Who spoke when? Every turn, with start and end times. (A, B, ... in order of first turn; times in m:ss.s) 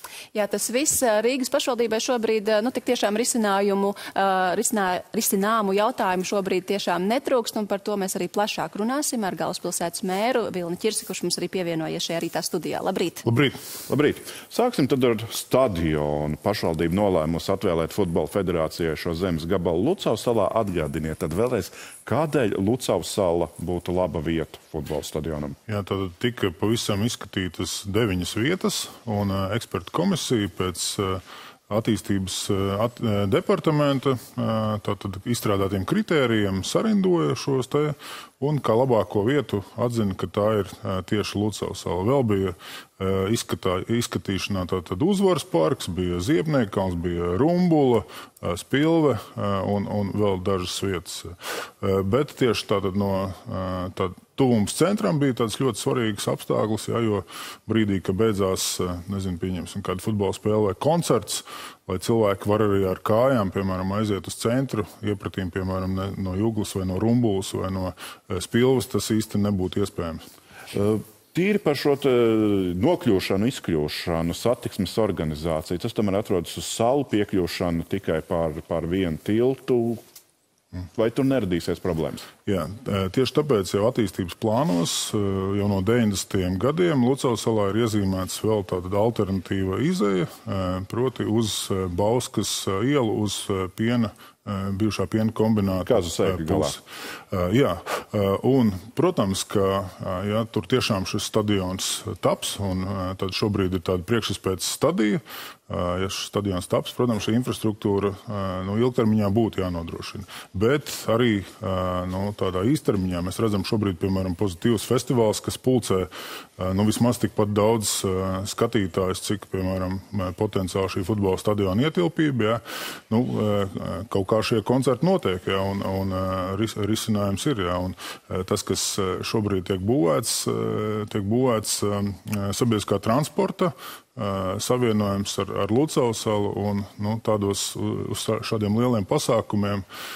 0:00.3-0:13.2 A
0:13.2-0:13.6 B
0:13.9-0:25.6 C
0:25.7-1:10.2 B
1:10.7-1:20.0 C
1:20.9-1:22.3 C
1:22.4-2:19.8 B
1:35.8-1:36.8 C